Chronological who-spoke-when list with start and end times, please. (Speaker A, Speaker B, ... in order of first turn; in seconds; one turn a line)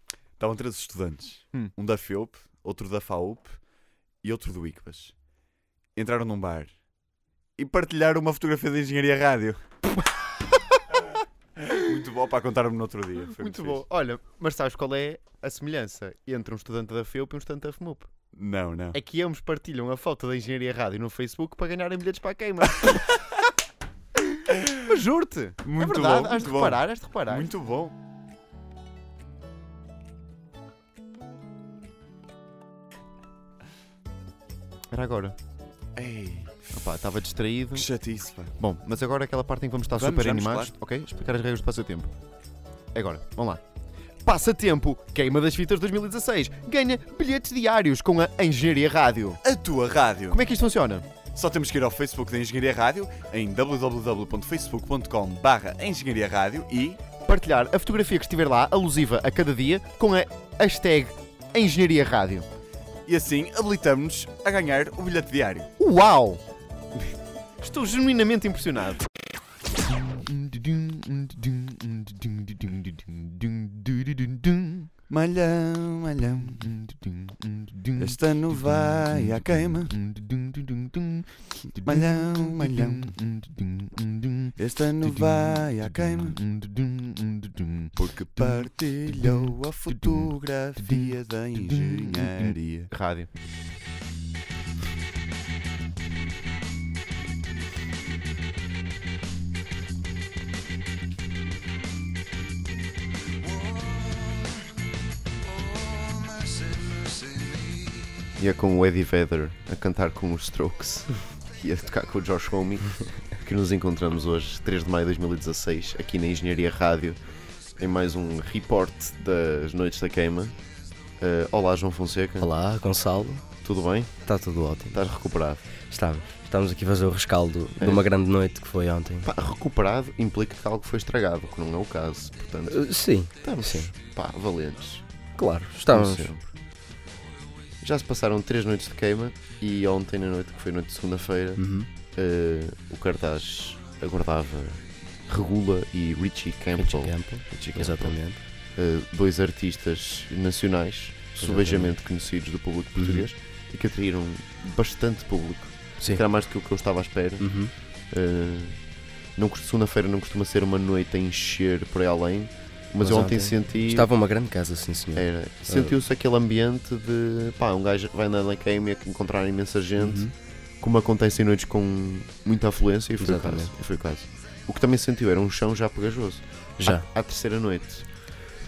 Speaker A: 0.4-3.6
Speaker A: 4.2-5.2
Speaker A: 6.0-6.8
Speaker A: 7.6-9.6
Speaker A: 11.7-13.8
Speaker B: 13.3-18.1
Speaker A: 18.4-19.0
Speaker B: 18.9-23.2
Speaker B: 24.6-27.5
Speaker A: 25.6-27.9
Speaker B: 34.9-35.4
Speaker A: 36.0-36.8
Speaker B: 36.7-37.9
Speaker A: 37.7-38.5
Speaker B: 38.6-42.1
Speaker A: 39.9-40.7
Speaker B: 42.9-43.6
Speaker B: 44.2-49.4
Speaker A: 49.4-50.4
Speaker B: 50.3-51.1
Speaker A: 51.4-57.0
Speaker B: 57.2-62.5
Speaker A: 63.1-65.7
Speaker B: 65.8-66.4
Speaker B: 67.6-69.1
Speaker B: 70.0-74.9
Speaker A: 75.1-76.6
Speaker A: 78.0-80.0
Speaker B: 80.2-80.9
Speaker A: 81.8-83.1
Speaker B: 83.0-83.9
Speaker A: 84.6-86.5
Speaker B: 86.6-86.9
Speaker B: 88.0-88.7
Speaker A: 88.3-92.9
Speaker B: 92.9-93.3
Speaker B: 108.4-117.2
Speaker B: 117.8-120.5
Speaker B: 121.2-122.5
Speaker C: 122.4-123.4
Speaker B: 123.6-124.2
Speaker C: 124.2-125.0
Speaker B: 124.9-125.6
Speaker C: 125.9-129.3
Speaker B: 127.8-128.0
Speaker B: 129.2-132.8
Speaker C: 132.7-133.9
Speaker B: 133.4-135.1
Speaker C: 135.4-136.3
Speaker B: 135.9-136.5
Speaker B: 137.8-141.6
Speaker C: 141.6-141.9
Speaker B: 142.2-148.2
Speaker C: 146.8-148.4
Speaker B: 148.8-157.5
Speaker C: 151.4-152.0
Speaker C: 153.0-153.3
Speaker C: 157.4-157.7
Speaker B: 158.1-158.8
Speaker B: 159.4-164.1
Speaker C: 163.0-165.9
Speaker B: 165.2-170.3
Speaker C: 170.0-170.3
Speaker B: 170.8-178.1
Speaker C: 173.2-173.7